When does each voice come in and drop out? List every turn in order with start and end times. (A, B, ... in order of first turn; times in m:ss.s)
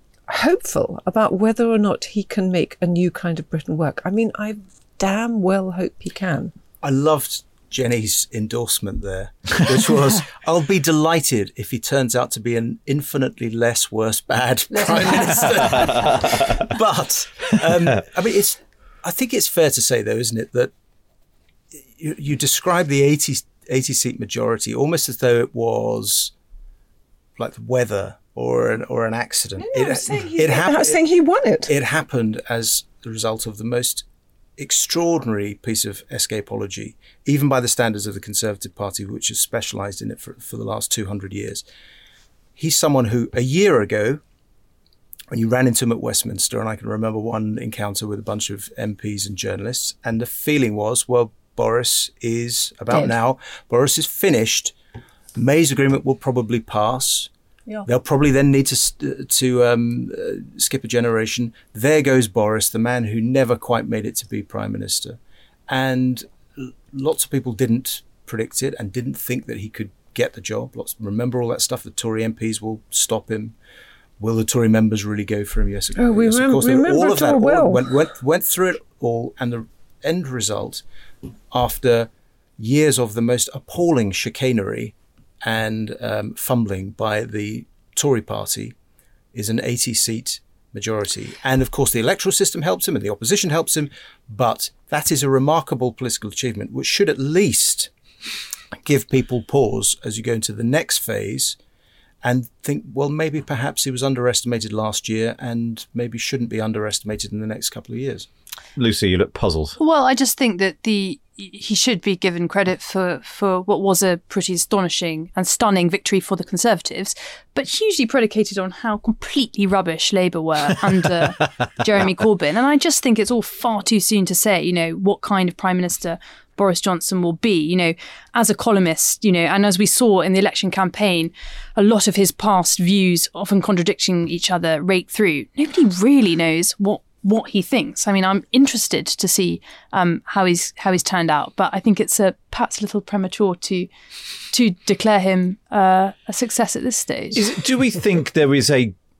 0:00.3-0:06.5 A
0:06.8-0:20.7 B
0:15.8-0:16.3 C
0:21.8-0:26.3 B
0:27.4-0:31.0 B
0:29.6-0:31.7 A
0:31.7-0:34.0 B
0:34.6-0:41.6 B
0:42.6-0:44.2 B
0:45.3-0:54.7 B
0:55.4-0:57.3 B
0:57.8-1:05.2 B
1:05.7-1:13.6 B
1:14.2-1:20.8 B
1:16.0-1:17.9 A
1:21.5-1:28.7 B
1:29.3-1:37.9 B
1:38.8-1:41.6 B
1:42.2-1:48.3 B
1:48.8-1:49.8 C
1:49.8-2:23.9 D
2:24.5-2:27.4 D
2:27.3-2:28.9 C